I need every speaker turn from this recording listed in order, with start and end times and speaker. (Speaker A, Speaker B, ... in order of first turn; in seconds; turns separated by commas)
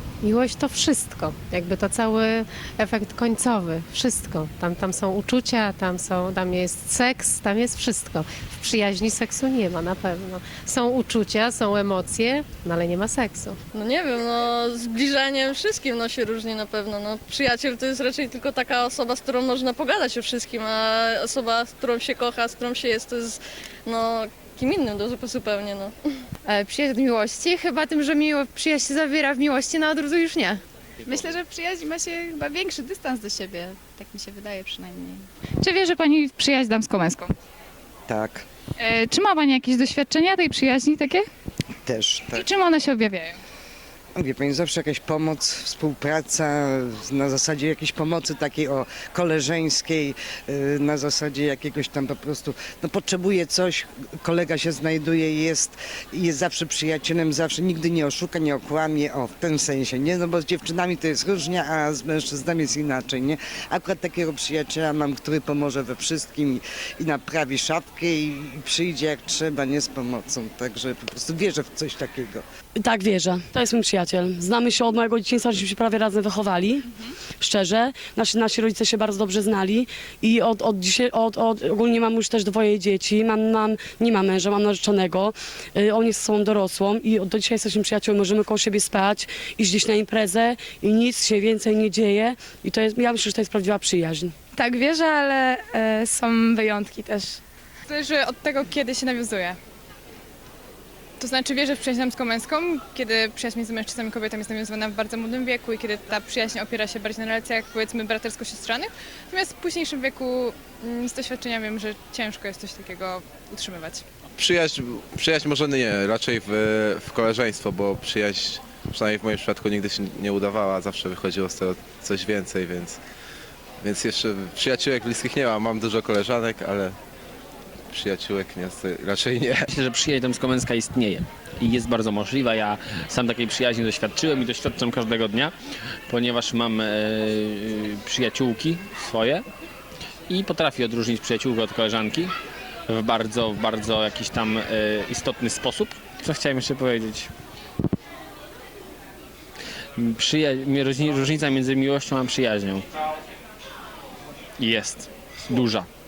Speaker A: 0.2-13.6, Speaker B: 13.7-25.9, Speaker C: 26.4-30.6, Speaker D: 35.6-37.3, Speaker E: 38.1-38.5, Speaker D: 38.8-41.2, Speaker E: 41.9-42.5, Speaker D: 42.3-43.4, Speaker E: 44.2-72.4, Speaker F: 72.8-76.8, Speaker F: 77.4-94.3, Speaker D: 94.6-95.0, Speaker D: 96.9-97.3, Speaker G: 97.9-99.6, Speaker G: 101.2-114.0, Speaker H: 114.4-123.0, Speaker H: 123.8-127.0, Speaker H: 127.9-129.7, Speaker I: 129.7-135.5, Speaker I: 136.1-139.4, Speaker I: 140.3-142.3, Speaker I: 142.9-147.3, Speaker I: 149.9-152.8, Speaker I: 154.6-155.9